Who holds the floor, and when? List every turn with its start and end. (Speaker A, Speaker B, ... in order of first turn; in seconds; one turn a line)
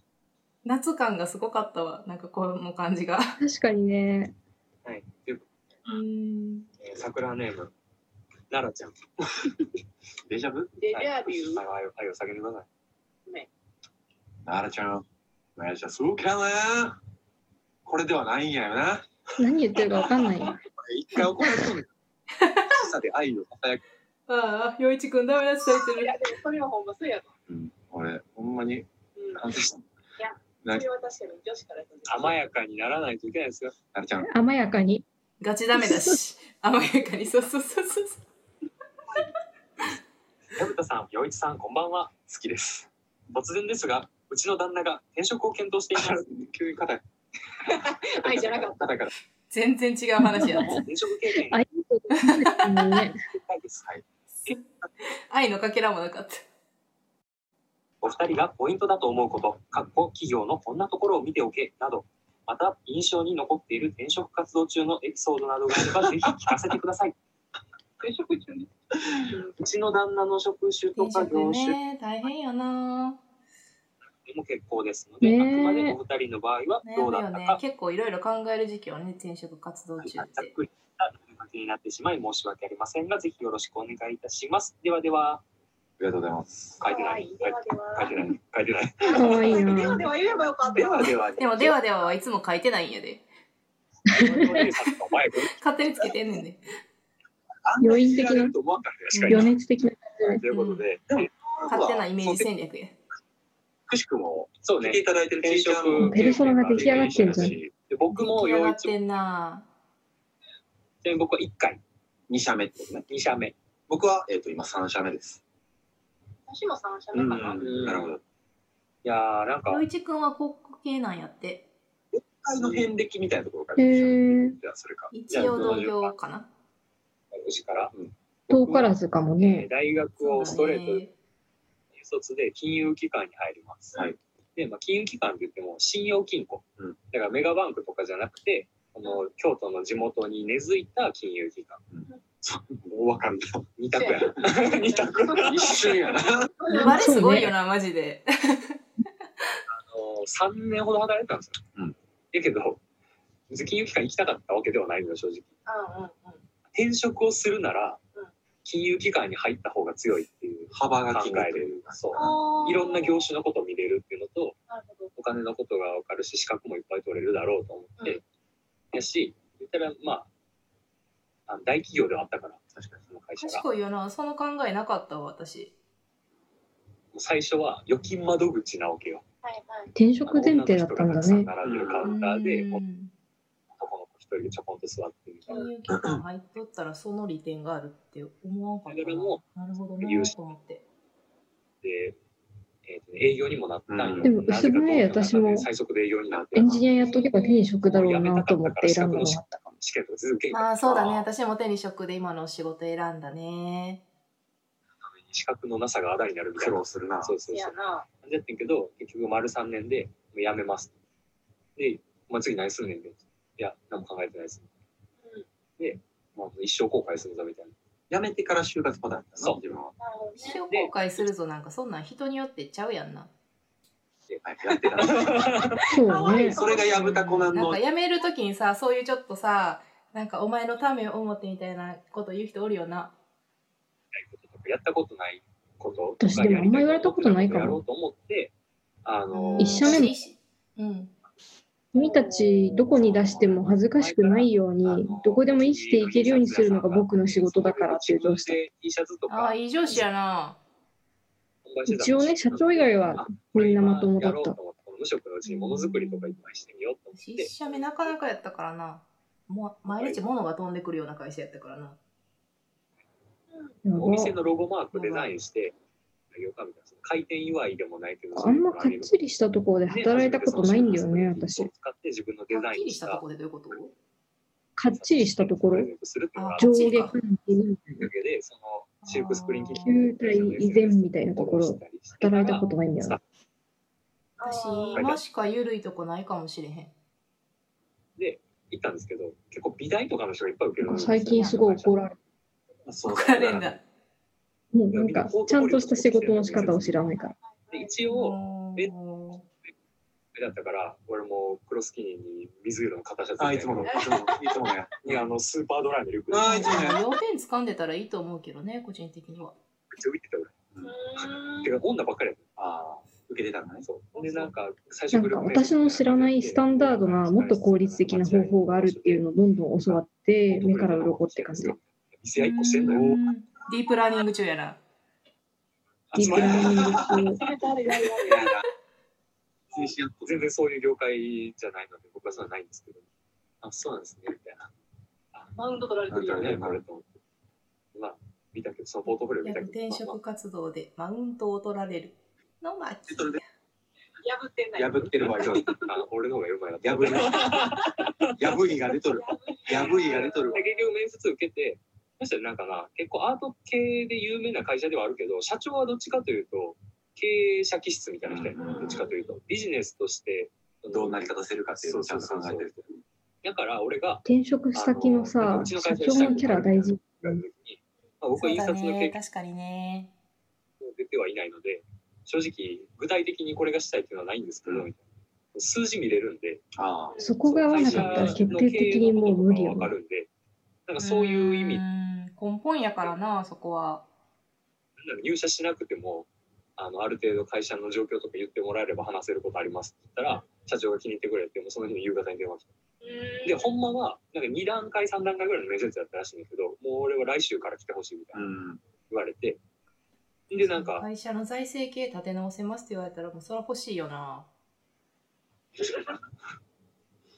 Speaker A: 0.6-3.4
Speaker B: 3.4-4.3
Speaker C: 4.8-5.2
Speaker A: 5.9-6.7
Speaker C: 6.8-7.7
Speaker C: 8.5-9.1
Speaker D: 10.3-10.7
Speaker E: 10.8-11.6
Speaker C: 10.9-12.7
Speaker D: 14.4-17.0
Speaker D: 17.9-19.1
Speaker B: 19.4-20.6
Speaker D: 20.6-21.9
Speaker D: 22.6-23.8
Speaker A: 24.3-26.1
Speaker E: 25.9-27.3
Speaker D: 27.5-29.9
Speaker E: 29.1-29.5
Speaker E: 30.2-32.5
Speaker C: 32.1-33.8
Speaker D: 33.9-34.3
Speaker B: 34.3-35.0
Speaker A: 35.4-38.2
Speaker B: 35.8-36.1
Speaker C: 40.5-42.2
Speaker D: 42.3-42.9
Speaker C: 43.3-46.3
Speaker D: 46.0-47.0
Speaker E: 47.7-48.9
Speaker D: 48.1-49.1
Speaker A: 49.5-50.8
Speaker B: 50.2-50.8
Speaker C: 50.6-51.6
Speaker B: 51.4-53.2
Speaker A: 52.1-53.0
Speaker C: 53.3-53.9
Speaker A: 54.5-56.4
Speaker C: 58.0-67.2
Speaker D: 65.8-66.5
Speaker E: 69.2-69.5
Speaker C: 69.6-71.8
Speaker A: 71.0-73.2
Speaker C: 74.2-77.6
Speaker B: 75.2-76.0
Speaker A: 76.8-80.5
Speaker C: 80.0-85.4
Speaker D: 86.0-86.8
Speaker C: 86.8-89.6
Speaker E: 86.8-88.1
Speaker E: 89.0-91.1
Speaker B: 89.1-90.0
Speaker D: 90.7-91.8
Speaker C: 90.8-91.1
Speaker A: 91.4-93.2
Speaker B: 94.1-94.7
Speaker C: 94.2-95.6
Speaker A: 95.6-96.6
Speaker D: 97.6-99.2
Speaker B: 97.8-98.5
Speaker C: 99.0-99.5
Speaker A: 99.1-99.5
Speaker B: 99.3-100.4
Speaker C: 100.3-101.3
Speaker A: 100.5-100.9
Speaker D: 101.1-102.5
Speaker A: 101.7-103.0
Speaker D: 103.9-107.7
Speaker C: 104.6-109.0
Speaker B: 106.0-107.6
Speaker A: 108.1-109.7
Speaker C: 111.0-111.8
Speaker D: 112.3-113.1
Speaker C: 113.1-113.6
Speaker D: 113.9-115.4
Speaker E: 116.5-118.0
Speaker D: 117.1-118.2
Speaker C: 117.3-118.2
Speaker C: 119.0-119.8
Speaker A: 119.7-121.6
Speaker D: 122.1-125.7
Speaker C: 122.5-122.9
Speaker B: 123.8-124.6
Speaker A: 125.1-126.5
Speaker C: 125.3-126.1
Speaker C: 127.3-127.9
Speaker B: 128.5-129.7
Speaker C: 128.5-131.1
Speaker A: 130.2-131.1
Speaker C: 131.9-134.0
Speaker C: 134.6-141.8
Speaker D: 141.9-143.7
Speaker C: 143.8-146.0
Speaker E: 143.9-147.1
Speaker D: 145.3-146.5
Speaker B: 146.7-147.5
Speaker A: 146.7-148.8
Speaker C: 149.7-151.6
Speaker C: 152.3-152.8
Speaker C: 153.5-155.5
Speaker E: 155.7-156.4
Speaker C: 156.7-158.0
Speaker C: 158.6-164.6
Speaker D: 160.7-162.4
Speaker E: 162.1-163.2
Speaker E: 164.7-165.1
Speaker C: 165.2-168.2
Speaker C: 168.9-170.3
Speaker C: 171.5-173.6
Speaker D: 172.8-173.1
Speaker A: 173.4-175.7
Speaker C: 177.1-179.2
Speaker E: 179.4-179.9
Speaker B: 179.9-181.5
Speaker C: 180.3-182.8
Speaker D: 181.6-182.1
Speaker A: 182.0-183.1
Speaker C: 183.8-185.6
Speaker A: 185.5-190.8
Speaker D: 185.9-186.2
Speaker C: 188.9-189.4
Speaker C: 190.0-190.4
Speaker C: 191.8-192.2
Speaker C: 192.9-196.8
Speaker D: 193.9-194.3
Speaker B: 194.2-195.7
Speaker D: 196.3-196.9
Speaker B: 196.5-199.7
Speaker A: 197.1-197.6
Speaker C: 197.8-201.3
Speaker A: 200.5-204.0
Speaker C: 205.1-210.9
Speaker D: 206.6-207.4
Speaker E: 207.5-208.1
Speaker C: 211.8-214.7
Speaker C: 215.8-217.8
Speaker D: 218.1-219.9
Speaker E: 220.0-220.6
Speaker A: 220.4-223.3
Speaker C: 220.7-221.2
Speaker D: 224.3-225.7
Speaker C: 225.0-225.8
Speaker E: 225.9-227.1
Speaker B: 225.9-226.6
Speaker D: 226.4-227.8
Speaker A: 226.9-233.1
Speaker C: 234.1-238.5
Speaker B: 236.2-237.8
Speaker C: 239.1-240.0
Speaker A: 239.3-241.1
Speaker B: 239.6-240.1
Speaker B: 241.9-248.6
Speaker E: 241.9-242.7
Speaker D: 242.9-243.6
Speaker C: 243.9-249.6
Speaker A: 249.3-250.6
Speaker C: 251.6-257.5
Speaker B: 251.9-254.6
Speaker A: 255.4-256.4
Speaker A: 257.1-262.0
Speaker E: 257.6-258.1
Speaker C: 259.9-260.2
Speaker E: 263.5-263.8
Speaker B: 263.9-264.4
Speaker C: 264.0-265.8
Speaker A: 264.9-265.3
Speaker C: 266.3-269.2
Speaker B: 268.3-271.7
Speaker C: 269.9-273.2
Speaker A: 272.5-273.9
Speaker B: 274.8-275.9
Speaker C: 274.9-276.9
Speaker A: 276.4-277.2
Speaker B: 276.6-278.1
Speaker C: 278.0-283.2
Speaker A: 279.0-280.0
Speaker B: 279.7-283.2
Speaker E: 284.4-285.1
Speaker A: 284.4-286.9
Speaker C: 284.9-285.2
Speaker C: 288.2-292.0
Speaker B: 290.8-292.1
Speaker A: 291.3-291.6
Speaker D: 292.9-293.4
Speaker C: 292.9-293.8
Speaker A: 293.1-293.8
Speaker B: 294.7-297.4
Speaker C: 294.9-297.0
Speaker E: 297.1-298.0
Speaker C: 297.7-298.9
Speaker A: 298.1-299.4
Speaker C: 300.3-304.1
Speaker D: 303.4-305.3
Speaker E: 303.9-304.6
Speaker C: 305.0-306.9
Speaker D: 306.3-307.0
Speaker A: 306.4-309.6
Speaker C: 309.9-310.6
Speaker E: 310.8-311.8
Speaker C: 311.6-312.4
Speaker D: 312.6-313.9
Speaker C: 313.8-319.2
Speaker E: 314.1-314.5
Speaker B: 315.1-321.8
Speaker C: 319.9-323.2
Speaker A: 322.4-324.8
Speaker C: 326.1-327.5
Speaker B: 326.1-327.4
Speaker D: 326.4-327.1
Speaker E: 327.4-328.5
Speaker D: 328.2-328.6
Speaker D: 329.7-330.5
Speaker C: 330.2-333.1
Speaker C: 333.6-334.7
Speaker E: 335.6-336.6
Speaker D: 336.1-336.8
Speaker C: 336.3-337.2
Speaker C: 337.9-340.2
Speaker A: 339.4-343.4
Speaker D: 343.1-343.4
Speaker E: 344.2-345.9
Speaker D: 344.8-345.7
Speaker C: 345.2-348.5
Speaker D: 346.8-347.7
Speaker D: 348.4-350.6
Speaker E: 349.0-350.7
Speaker C: 349.7-362.7
Speaker D: 358.2-359.0
Speaker E: 358.6-359.4
Speaker D: 360.9-363.0
Speaker C: 363.4-369.1
Speaker B: 364.2-367.4
Speaker A: 368.4-370.1
Speaker C: 370.8-375.0
Speaker C: 375.5-376.6
Speaker D: 376.8-377.2
Speaker E: 377.1-377.4
Speaker B: 377.2-379.9
Speaker C: 377.4-380.3
Speaker D: 377.7-378.5
Speaker C: 380.9-381.8
Speaker A: 381.0-384.1
Speaker C: 385.0-392.7
Speaker E: 390.3-390.6
Speaker E: 393.0-393.7
Speaker C: 393.4-398.5
Speaker D: 398.3-398.8
Speaker C: 399.1-399.6
Speaker C: 400.5-401.1
Speaker A: 400.6-404.5
Speaker D: 405.8-406.2